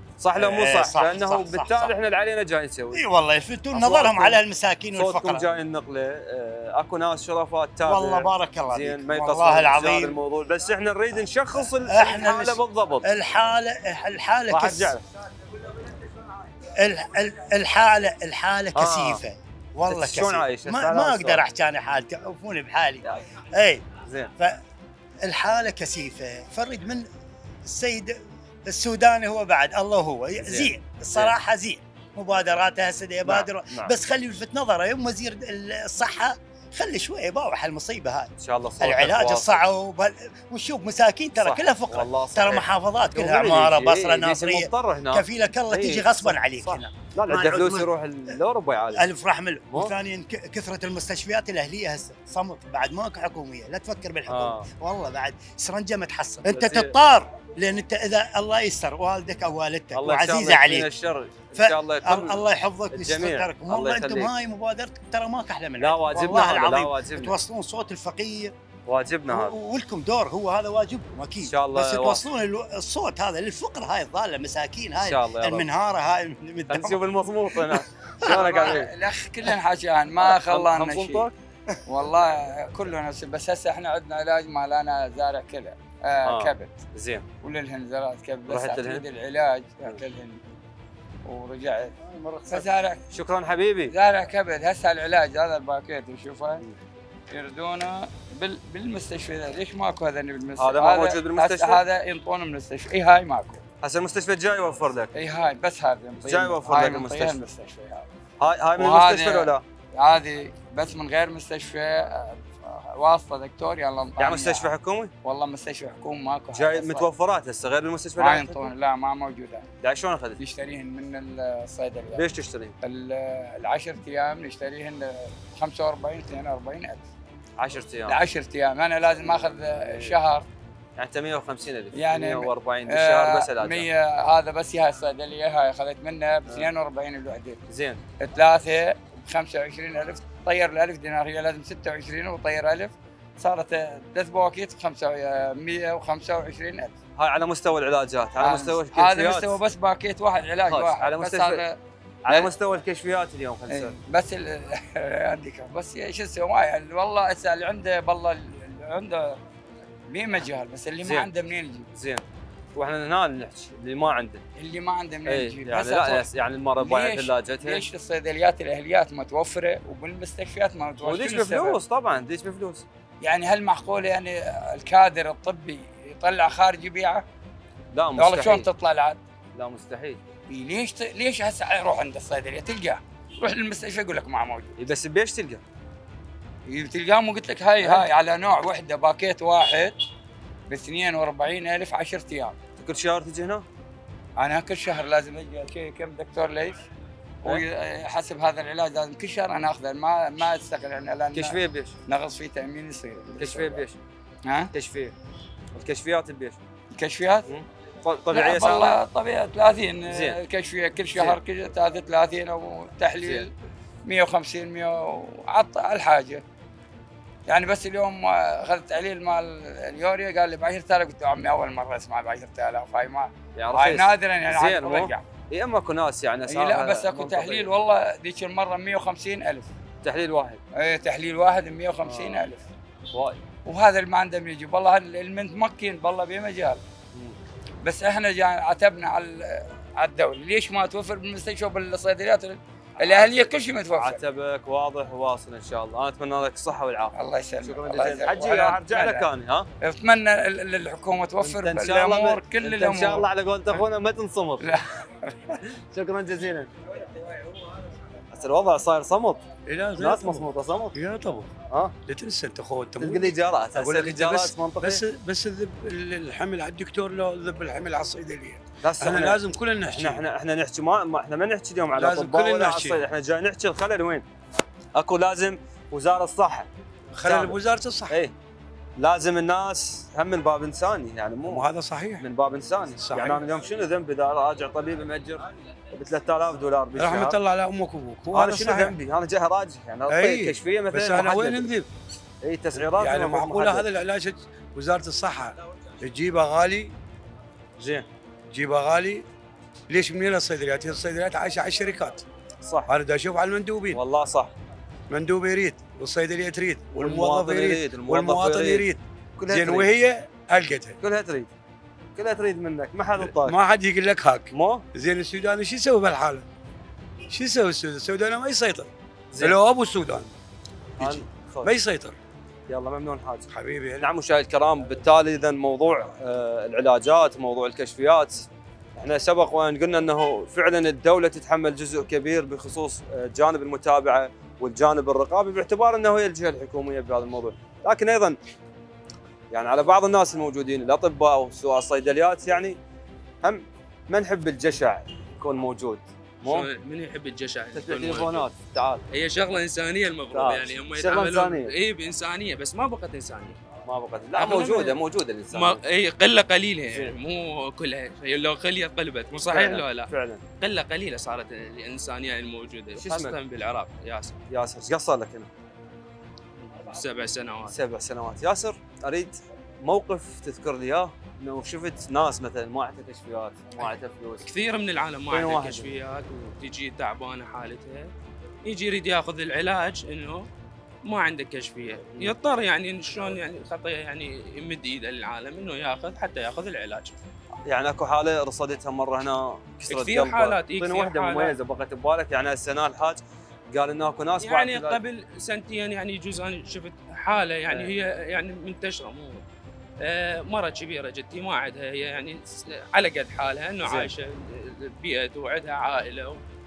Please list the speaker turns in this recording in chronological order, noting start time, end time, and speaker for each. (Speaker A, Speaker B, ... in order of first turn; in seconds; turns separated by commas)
Speaker A: 0.2-3.0, Speaker B: 0.3-1.9, Speaker B: 2.9-5.5, Speaker A: 3.7-4.4, Speaker A: 4.9-13.1, Speaker B: 7.8-10.2, Speaker B: 11.5-14.9, Speaker A: 14.5-15.0, Speaker B: 16.7-24.6, Speaker A: 18.7-19.2, Speaker A: 19.9-21.4, Speaker A: 24.0-24.3, Speaker B: 25.2-27.1, Speaker B: 27.6-48.3, Speaker A: 30.4-31.3, Speaker A: 33.2-33.9, Speaker A: 38.4-39.6, Speaker A: 41.4-49.0, Speaker B: 48.9-60.9, Speaker A: 49.7-49.9, Speaker A: 54.3-54.7, Speaker A: 56.4-57.0, Speaker A: 59.9-64.3, Speaker B: 61.5-68.5, Speaker A: 65.8-67.3, Speaker A: 68.9-69.5, Speaker B: 69.3-78.7, Speaker A: 71.4-72.2, Speaker A: 75.0-75.7, Speaker A: 76.7-78.9, Speaker C: 78.2-81.2, Speaker A: 80.2-81.3, Speaker C: 81.8-86.8, Speaker A: 86.2-87.2, Speaker C: 87.4-90.4, Speaker A: 88.5-89.0, Speaker C: 91.2-93.0, Speaker A: 92.5-93.9, Speaker C: 93.9-96.6, Speaker C: 97.3-103.6, Speaker A: 100.6-101.8, Speaker A: 103.8-105.1, Speaker C: 105.1-108.1, Speaker A: 106.2-107.5, Speaker A: 108.4-109.6, Speaker C: 108.8-114.7, Speaker A: 114.2-115.1, Speaker C: 115.2-117.1, Speaker A: 116.5-118.7, Speaker C: 118.2-119.7, Speaker A: 119.8-120.4, Speaker C: 120.4-122.2, Speaker A: 122.1-122.7, Speaker C: 122.8-127.0, Speaker A: 127.6-128.2, Speaker C: 128.1-130.5, Speaker A: 129.3-130.2, Speaker A: 131.0-133.9, Speaker C: 131.9-137.6, Speaker A: 137.7-138.0, Speaker C: 138.2-146.9, Speaker A: 147.2-149.6, Speaker C: 148.4-152.5, Speaker A: 150.7-151.6, Speaker A: 152.2-153.9, Speaker C: 153.7-159.4, Speaker C: 160.1-161.9, Speaker A: 161.0-161.3, Speaker A: 161.9-162.2, Speaker A: 162.7-164.4, Speaker C: 164.6-166.2, Speaker A: 165.2-167.8, Speaker C: 166.8-171.8, Speaker A: 171.0-172.8, Speaker C: 173.2-177.2, Speaker A: 177.9-178.7, Speaker C: 178.2-179.2, Speaker A: 179.5-180.2, Speaker C: 180.5-184.7, Speaker A: 184.8-185.6, Speaker C: 186.7-189.9, Speaker A: 187.8-188.1, Speaker C: 190.7-192.6, Speaker A: 192.8-193.7, Speaker C: 194.4-196.8, Speaker C: 197.4-203.8, Speaker A: 201.3-201.9, Speaker A: 203.3-204.0, Speaker C: 204.4-204.7, Speaker A: 204.7-205.1, Speaker A: 205.7-206.6, Speaker C: 206.9-207.5, Speaker A: 207.4-209.0, Speaker C: 208.3-213.5, Speaker A: 210.1-210.4, Speaker A: 211.1-211.4, Speaker A: 213.2-213.5, Speaker C: 214.0-216.4, Speaker C: 217.5-225.2, Speaker A: 223.5-227.7, Speaker C: 226.5-229.7, Speaker A: 230.0-230.6, Speaker C: 230.8-232.7, Speaker A: 232.0-232.5, Speaker A: 233.1-233.4, Speaker C: 233.6-236.8, Speaker C: 237.8-244.2, Speaker A: 243.1-243.4, Speaker A: 243.9-249.7, Speaker C: 247.1-249.3, Speaker C: 249.8-253.8, Speaker A: 251.4-254.7, Speaker C: 254.6-255.5, Speaker A: 255.7-256.7, Speaker A: 258.3-259.4, Speaker D: 259.7-261.5, Speaker A: 260.0-261.0, Speaker D: 262.1-270.2, Speaker A: 263.0-265.0, Speaker A: 268.8-274.2, Speaker D: 271.9-273.0, Speaker A: 274.9-276.7, Speaker D: 277.2-278.2, Speaker A: 277.2-277.6, Speaker A: 278.1-278.3, Speaker A: 279.0-281.7, Speaker D: 281.5-282.2, Speaker A: 282.2-287.4, Speaker D: 283.0-283.4, Speaker D: 286.9-289.0, Speaker A: 288.3-291.7, Speaker D: 290.1-291.9, Speaker A: 292.4-293.9, Speaker D: 292.8-296.9, Speaker A: 297.8-298.1, Speaker D: 298.5-299.2, Speaker D: 299.9-302.2, Speaker A: 302.6-302.9, Speaker D: 302.9-304.0, Speaker A: 303.9-304.5, Speaker D: 305.1-311.0, Speaker A: 306.9-309.9, Speaker A: 311.0-311.5, Speaker A: 312.1-313.6, Speaker D: 313.2-316.4, Speaker A: 314.5-314.8, Speaker D: 317.3-318.9, Speaker A: 319.3-319.6, Speaker D: 319.4-320.3, Speaker A: 321.0-321.7, Speaker D: 321.0-322.1, Speaker A: 322.7-338.4, Speaker D: 323.5-324.1, Speaker A: 339.5-342.8, Speaker A: 343.4-346.7, Speaker E: 346.4-348.4, Speaker A: 347.7-349.0, Speaker E: 349.1-353.6, Speaker A: 350.3-351.7, Speaker A: 353.9-355.8, Speaker E: 354.4-355.0, Speaker E: 355.5-360.1, Speaker A: 359.3-360.4, Speaker E: 360.6-364.4, Speaker A: 363.0-363.4, Speaker A: 364.5-365.5, Speaker E: 366.8-367.7, Speaker A: 367.7-374.5, Speaker E: 374.4-378.1, Speaker A: 375.3-375.9, Speaker E: 378.6-380.5, Speaker E: 381.0-387.1, Speaker A: 387.6-395.0, Speaker E: 389.9-391.5, Speaker E: 394.4-399.4, Speaker E: 400.0-406.4, Speaker A: 403.8-404.1